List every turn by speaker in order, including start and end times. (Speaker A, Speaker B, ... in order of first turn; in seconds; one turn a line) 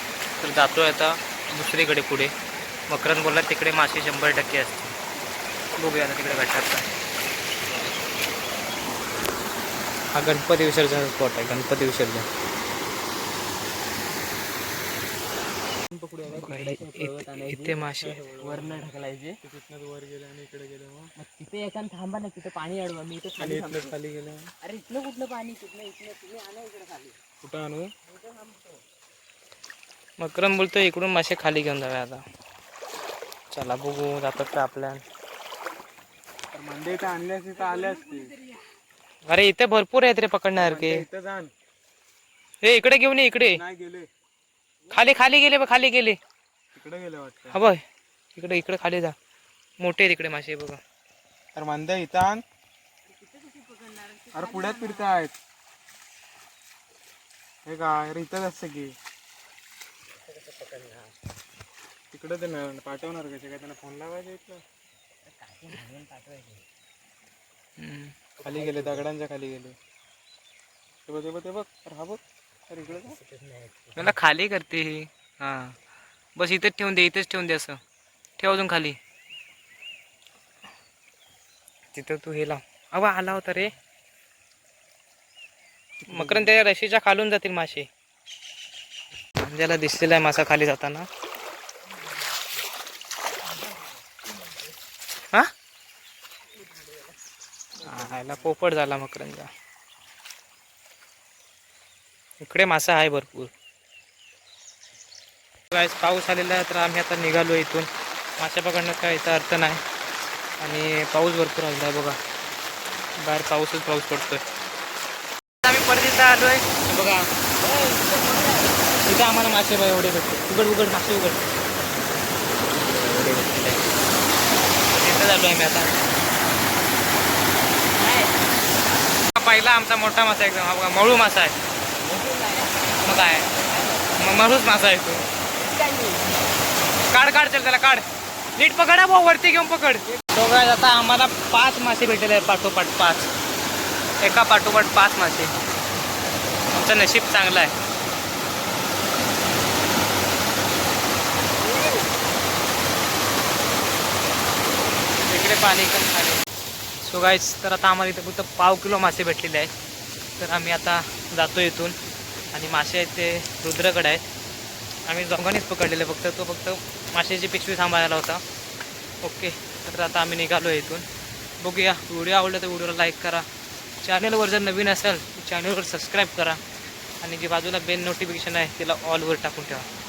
Speaker A: 0.4-2.3
Speaker A: 2.9-4.8
Speaker A: 5.8-6.9
Speaker A: 10.1-12.3
Speaker B: 16.0-19.4
Speaker A: 16.3-18.2
Speaker C: 18.0-21.1
Speaker B: 21.2-23.9
Speaker C: 23.4-24.5
Speaker B: 24.6-27.2
Speaker C: 27.4-27.9
Speaker B: 28.1-28.7
Speaker A: 30.2-32.2
Speaker A: 33.5-35.0
Speaker C: 36.5-38.3
Speaker B: 37.7-38.3
Speaker A: 39.3-41.0
Speaker C: 40.6-41.5
Speaker A: 42.6-43.6
Speaker C: 43.5-44.1
Speaker A: 44.9-46.2
Speaker C: 46.8-47.6
Speaker A: 47.5-47.8
Speaker A: 48.4-49.1
Speaker A: 49.8-50.8
Speaker C: 51.6-52.4
Speaker B: 53.2-55.2
Speaker C: 54.3-55.3
Speaker C: 57.7-59.0
Speaker B: 60.3-61.1
Speaker C: 62.1-64.6
Speaker B: 65.3-66.6
Speaker A: 67.8-68.1
Speaker B: 68.4-69.1
Speaker C: 68.4-69.8
Speaker C: 71.1-73.2
Speaker B: 72.9-74.2
Speaker A: 74.0-75.8
Speaker A: 76.4-77.8
Speaker A: 78.4-79.0
Speaker A: 81.9-83.7
Speaker C: 86.0-86.6
Speaker A: 86.1-87.9
Speaker A: 89.4-91.1
Speaker A: 97.8-99.5
Speaker A: 102.4-103.5
Speaker A: 105.7-109.8
Speaker A: 110.6-112.2
Speaker A: 113.2-114.4
Speaker A: 115.6-117.3
Speaker B: 117.6-118.7
Speaker A: 119.0-121.5
Speaker A: 122.8-123.8
Speaker A: 124.9-125.9
Speaker B: 128.0-128.4
Speaker A: 129.3-131.6
Speaker B: 132.0-132.7
Speaker A: 133.0-133.5
Speaker A: 134.2-135.2
Speaker B: 135.6-136.3
Speaker A: 137.1-138.0
Speaker A: 138.6-143.3
Speaker A: 144.2-145.5
Speaker A: 146.7-147.7
Speaker A: 155.2-156.4
Speaker A: 157.0-159.7
Speaker A: 160.4-161.9
Speaker A: 162.5-164.2
Speaker A: 165.1-168.4
Speaker A: 169.2-171.1
Speaker A: 171.6-173.4
Speaker A: 174.0-176.6
Speaker A: 177.2-179.9